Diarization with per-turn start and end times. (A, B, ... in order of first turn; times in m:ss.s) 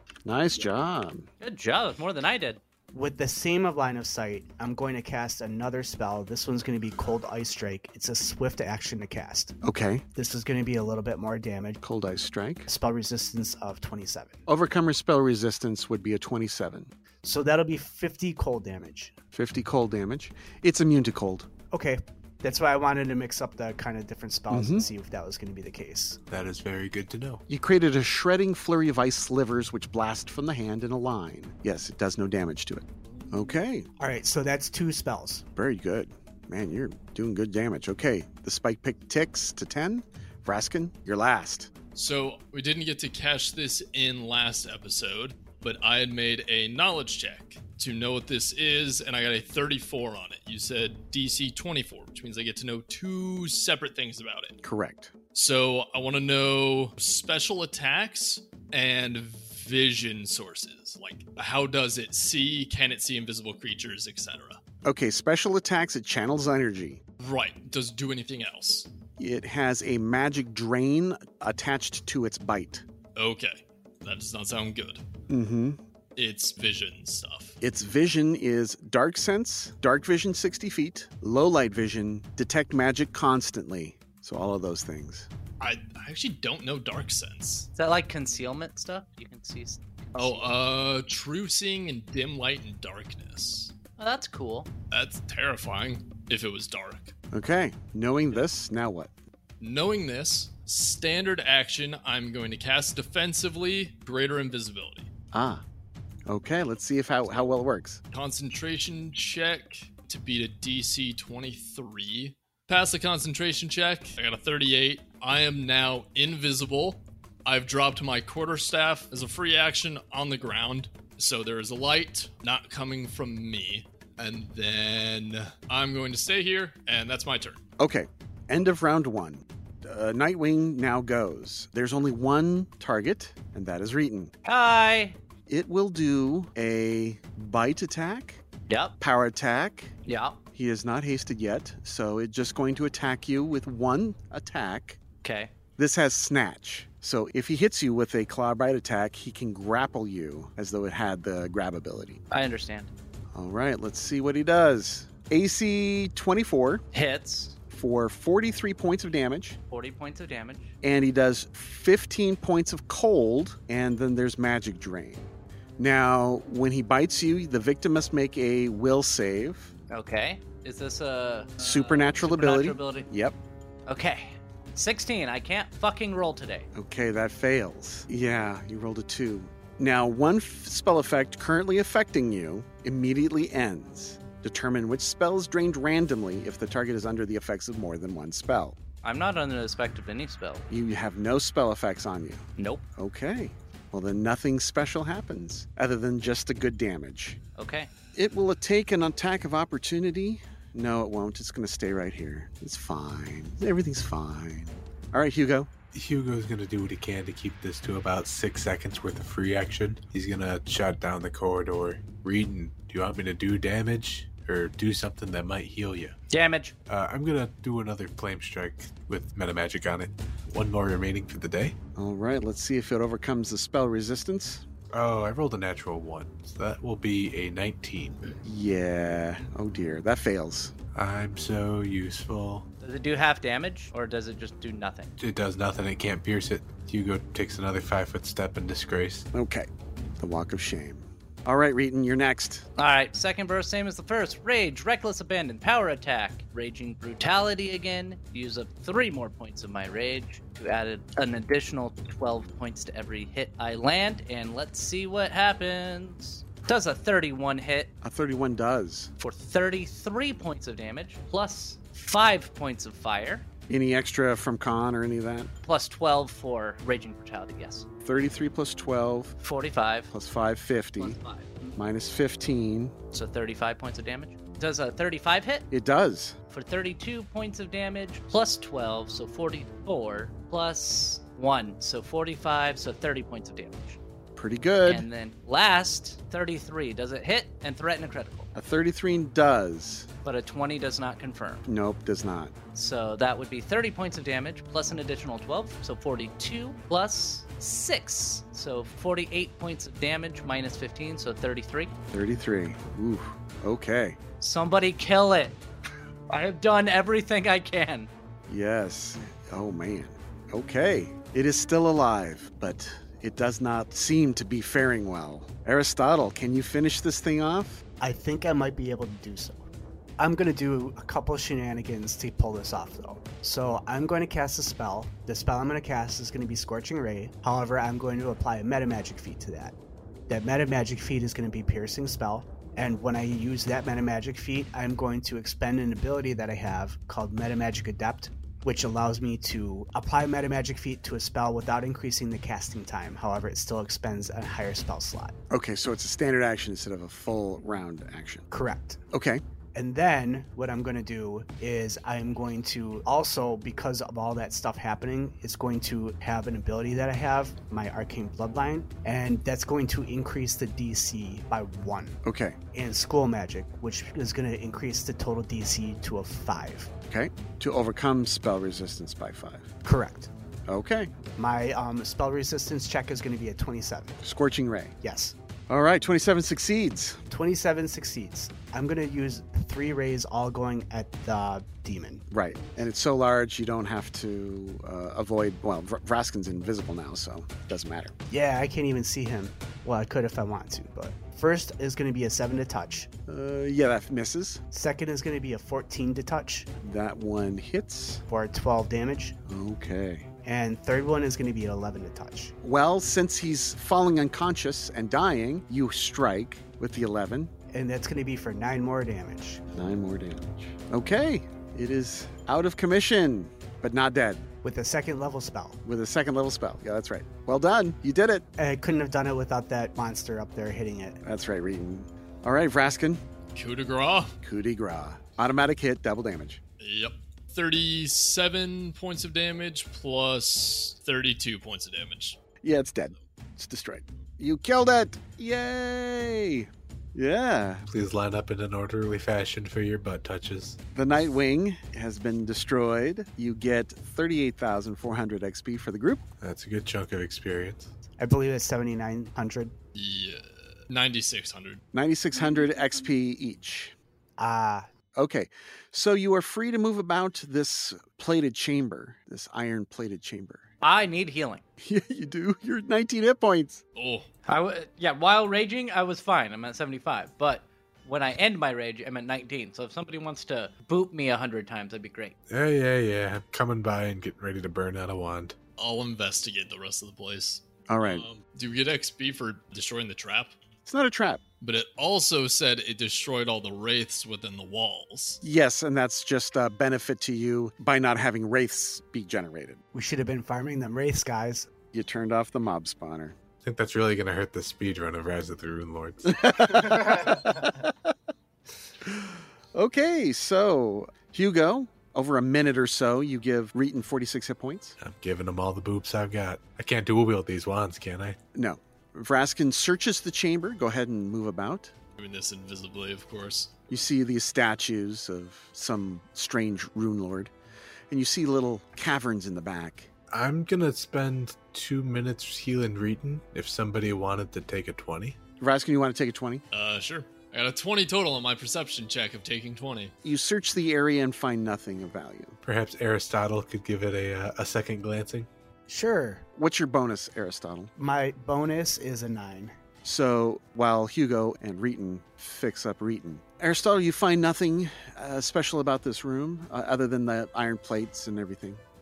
0:00.2-0:01.3 A
0:01.4-0:02.6 B
0:02.9-0:09.6 C
0:09.6-0:10.0 A
0:10.1-0:11.8 C
0:11.8-0:12.7 A
0:12.7-0:14.4 C
0:14.5-0:16.9 A
0:17.2-0:19.1 C
0:19.3-0:21.5 A
0:21.7-0:26.2 C
0:24.5-0:24.9 A
0:26.3-0:27.4 D
0:27.5-0:33.9 A
0:34.0-0:35.4 C
0:35.6-0:41.7 A
0:41.9-0:54.6 E
0:54.6-0:55.1 A
0:55.3-1:04.6 E
1:04.8-1:07.0 A
1:07.2-1:08.9 E
1:09.2-1:12.8 A
1:13.2-1:15.0 E
1:15.3-1:15.8 A
1:16.2-1:17.6 E
1:17.6-1:25.3 A
1:25.6-1:27.7 E
1:27.7-1:30.6 B
1:30.1-1:33.7 E
1:34.0-1:34.7 B
1:34.9-1:37.1 E
1:37.3-1:39.1 A
1:39.6-1:45.1 E
1:45.3-1:45.6 A
1:46.3-1:48.0 A
1:48.1-2:07.6 E
2:07.8-2:14.3 A
2:14.4-2:15.2 B
2:15.5-2:18.4 A
2:18.7-2:18.9 B
2:19.0-2:19.9 A
2:20.0-2:20.4 B
2:20.5-2:25.0 A
2:25.2-2:25.5 B
2:25.8-2:32.2 A
2:32.3-2:32.9 B
2:33.3-2:36.8 A
2:36.9-2:37.6 B
2:37.7-2:39.6 A
2:39.7-2:40.7 B
2:40.8-2:49.7 A
2:49.9-2:53.1 B
2:51.6-2:53.4 A
2:53.9-2:56.7 B
2:56.7-3:08.8 A
3:09.0-3:10.6 B
3:10.7-3:12.4 A
3:12.6-3:12.8 B
3:13.0-3:17.4 A
3:17.6-3:17.9 B
3:18.1-3:25.7 A
3:25.9-3:36.1 D
3:36.3-3:36.7 B
3:36.9-3:41.8 D
3:42.0-3:44.6 A
3:44.9-3:48.3 D
3:48.4-3:50.7 A
3:50.9-3:52.6 D
3:52.8-3:55.1 B
3:55.2-3:59.2 D
3:59.3-3:59.7 A
4:00.2-4:02.7 A
4:02.8-4:17.9 B
4:18.0-4:19.1 A
4:19.2-4:23.4 B
4:23.7-4:25.5 A
4:25.6-4:27.8 B
4:28.0-4:29.3 A
4:29.4-4:30.1 B
4:30.1-4:31.2 A
4:31.0-4:31.7 B
4:31.7-4:32.9 A
4:33.1-4:35.7 B
4:35.7-4:36.4 A
4:36.5-4:44.0 B
4:44.4-4:45.1 A
4:44.8-4:48.5 B
4:48.5-4:50.1 A
4:50.2-4:51.6 B
4:51.6-4:52.5 A
4:52.7-5:01.9 B
5:02.1-5:04.2 A
5:04.4-5:05.6 B
5:06.3-5:08.1 B
5:08.5-5:17.8 A
5:18.0-5:29.7 C
5:30.3-5:45.3 C
5:45.5-5:48.4 A
5:48.5-5:49.0 C
5:49.1-5:49.4 A
5:49.7-6:02.2 C
6:02.2-6:02.6 A
6:02.7-6:06.9 C
6:07.1-6:09.7 A
6:09.8-6:10.3 C
6:10.7-6:11.2 A
6:11.4-6:14.2 C
6:14.2-6:15.0 A
6:15.0-6:15.3 C
6:15.7-6:17.2 A
6:17.3-6:22.2 C
6:22.3-6:28.1 A
6:28.3-6:33.1 C
6:33.3-6:34.6 A
6:34.7-6:36.7 C
6:36.8-6:38.2 A
6:38.3-6:39.4 C
6:39.4-6:40.3 A
6:40.4-6:42.5 C
6:42.6-6:47.5 A
6:47.7-6:49.6 C
6:49.7-6:54.4 A
6:54.6-6:55.8 C
6:55.8-6:58.4 A
6:58.6-7:01.2 C
7:01.2-7:03.2 A
7:03.5-7:04.3 E
7:04.4-7:06.6 A
7:06.8-7:12.4 E
7:12.6-7:17.8 A
7:17.9-7:20.8 D
7:20.9-7:26.2 A
7:26.4-7:27.9 D
7:28.2-7:29.7 C
7:29.9-7:31.8 E
7:31.9-7:33.9 A
7:34.4-7:34.9 C
7:35.1-7:40.6 A
7:40.8-7:41.6 B
7:41.8-7:43.8 A
7:44.0-7:44.3 E
7:44.5-7:52.3 B
7:52.5-7:55.6 D
7:55.8-8:00.5 E
7:57.9-7:58.3 A
8:00.8-8:01.4 A
8:01.6-8:05.4 E
8:05.4-8:09.8 A
8:09.9-8:11.7 C
8:11.9-8:13.4 A
8:13.6-8:16.3 D
8:16.2-8:17.9 A
8:19.0-8:25.0 A
8:25.0-8:28.4 D
8:28.5-8:31.9 A
8:32.2-8:33.8 E
8:33.9-8:37.5 A
8:38.1-8:40.1 A
8:40.3-8:45.4 D
8:45.6-8:46.6 A
8:46.7-8:50.1 E
8:50.2-8:52.6 A
8:52.6-8:55.5 D
8:55.9-8:56.4 C
8:56.6-8:57.9 A
8:58.0-8:59.7 C
9:00.0-9:08.8 A